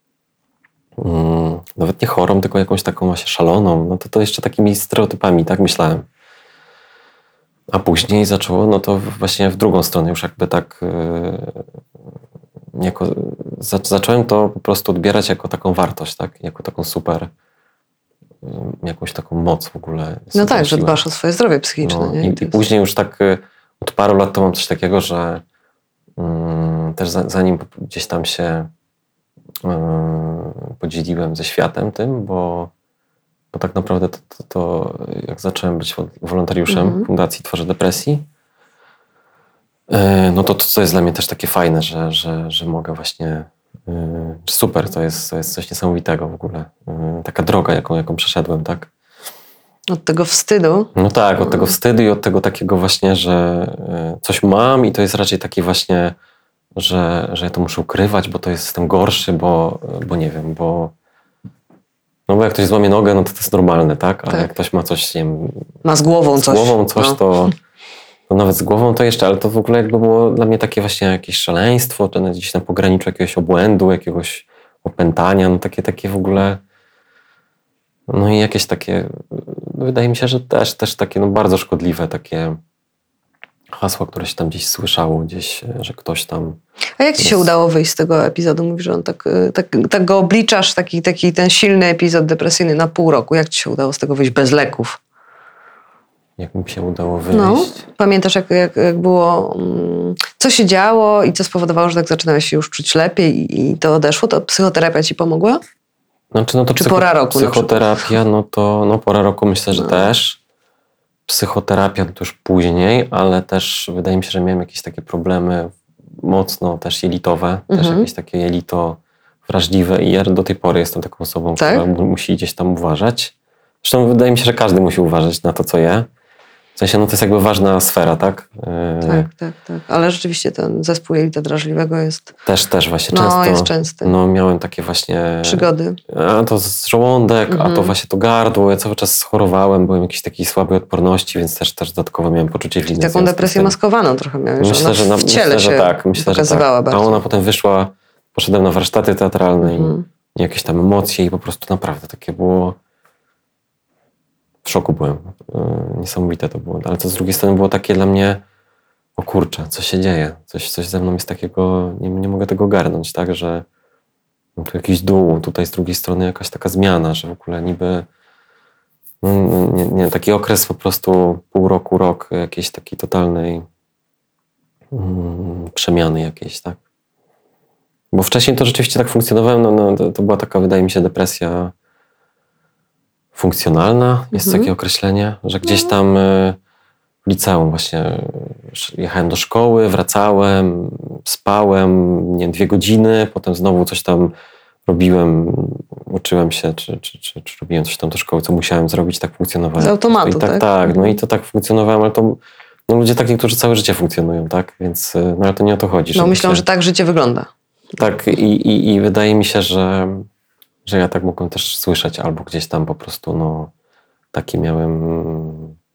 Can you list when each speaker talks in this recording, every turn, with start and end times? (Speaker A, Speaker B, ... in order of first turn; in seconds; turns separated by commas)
Speaker A: 1.0-6.0, Speaker A: 7.7-11.6, Speaker A: 12.8-17.3, Speaker A: 18.4-21.0, Speaker B: 20.4-22.6, Speaker A: 21.8-25.4, Speaker A: 26.2-28.7, Speaker A: 29.6-32.7, Speaker A: 33.5-38.2, Speaker B: 36.7-37.0, Speaker A: 39.9-48.9, Speaker B: 49.9-50.9, Speaker A: 51.0-56.2, Speaker B: 51.5-51.7, Speaker A: 56.8-60.9, Speaker A: 62.3-65.7, Speaker B: 65.8-67.2, Speaker A: 66.4-67.5, Speaker A: 68.3-76.6, Speaker A: 78.1-82.6, Speaker A: 83.7-86.6, Speaker B: 87.0-95.0, Speaker A: 87.2-87.5, Speaker A: 96.4-97.8, Speaker B: 97.3-105.6, Speaker A: 106.3-110.4, Speaker B: 106.8-108.0, Speaker B: 109.7-110.0, Speaker A: 111.3-126.1, Speaker B: 117.7-118.1, Speaker B: 121.6-121.8, Speaker A: 126.8-129.3, Speaker B: 129.0-132.3, Speaker A: 132.5-143.8, Speaker B: 133.1-134.1, Speaker B: 135.4-136.0, Speaker B: 137.5-137.9, Speaker B: 143.0-147.2, Speaker A: 144.6-152.8, Speaker B: 149.6-150.1, Speaker A: 154.6-158.4, Speaker A: 159.2-163.7, Speaker A: 164.6-168.1, Speaker A: 169.2-173.7, Speaker A: 174.9-176.8, Speaker A: 178.1-181.7, Speaker A: 183.3-186.6, Speaker B: 184.3-184.7, Speaker A: 187.2-194.3, Speaker A: 194.9-206.6, Speaker B: 199.8-201.2, Speaker B: 206.2-207.5, Speaker A: 208.0-210.3, Speaker A: 210.9-213.7, Speaker A: 214.3-215.8